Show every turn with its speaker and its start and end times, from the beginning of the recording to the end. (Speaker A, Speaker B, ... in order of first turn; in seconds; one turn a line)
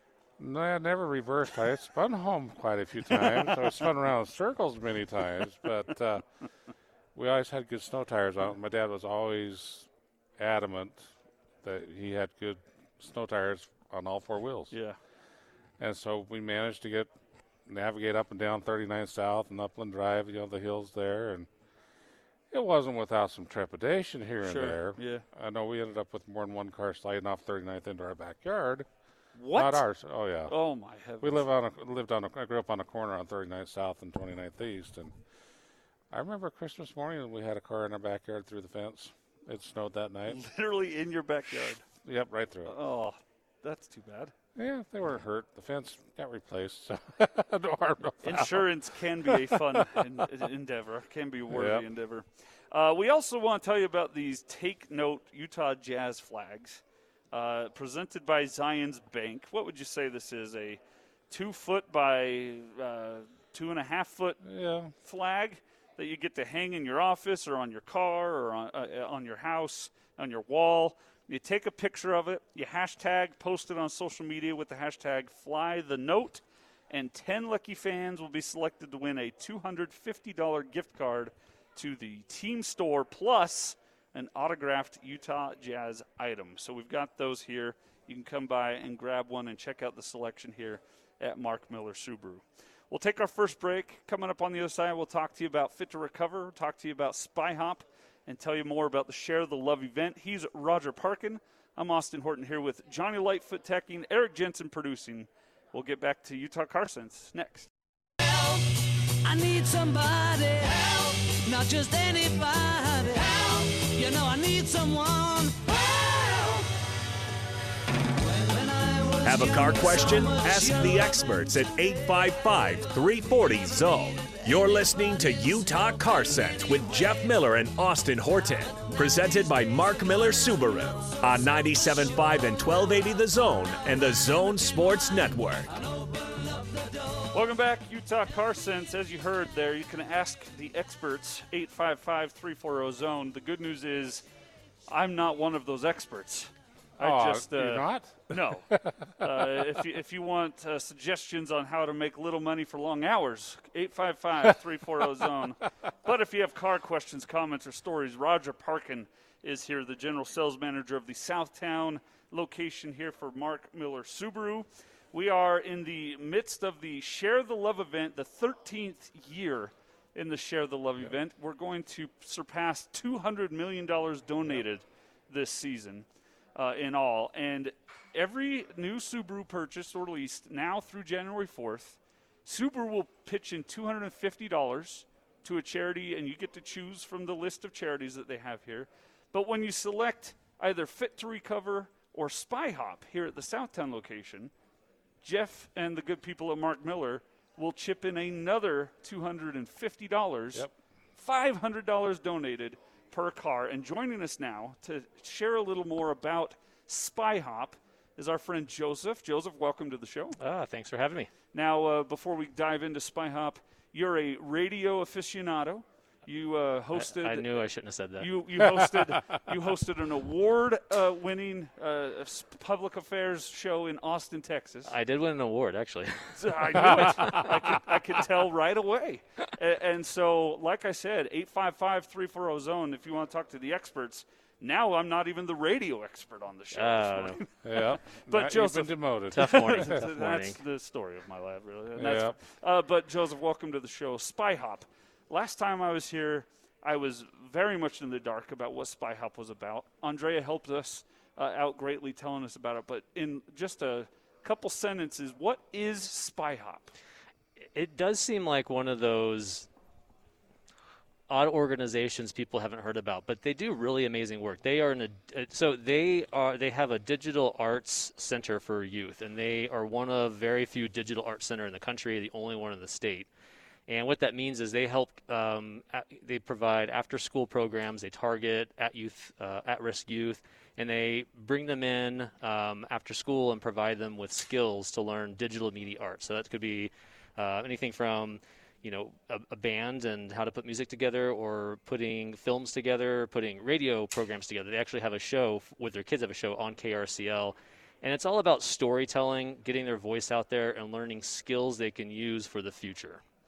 Speaker A: 0.4-6.2
Speaker B: 3.1-3.6
Speaker A: 7.1-11.1
Speaker A: 11.6-14.7
Speaker B: 14.7-15.0
Speaker A: 15.8-17.1
Speaker A: 17.6-21.5
Speaker A: 22.5-28.9
Speaker B: 24.4-25.2
Speaker B: 29.3-29.9
Speaker A: 29.5-30.6
Speaker B: 30.5-31.4
Speaker A: 31.2-35.1
Speaker A: 36.1-40.4
Speaker B: 40.3-41.8
Speaker A: 41.9-42.8
Speaker B: 42.6-44.3
Speaker A: 44.5-50.2
Speaker B: 48.2-64.4
Speaker A: 51.5-51.9
Speaker A: 64.4-64.9
Speaker B: 65.0-107.7
Speaker C: 108.2-116.7
Speaker C: 118.2-121.0
Speaker D: 119.2-135.7
Speaker C: 135.7-137.3
Speaker B: 137.3-144.2
Speaker B: 144.9-148.7
Speaker A: 147.0-149.8
Speaker B: 149.2-194.5
Speaker B: 195.2-210.4
Speaker E: 210.4-211.3
Speaker B: 211.5-217.6
Speaker E: 216.9-218.3
Speaker B: 218.2-224.9
Speaker A: 218.7-219.4
Speaker E: 224.9-227.9
Speaker B: 226.3-256.9
Speaker E: 236.7-237.4
Speaker A: 237.6-239.9
Speaker E: 239.3-240.6
Speaker A: 241.9-242.4
Speaker E: 257.7-259.7
Speaker E: 261.3-273.3
Speaker E: 273.9-303.2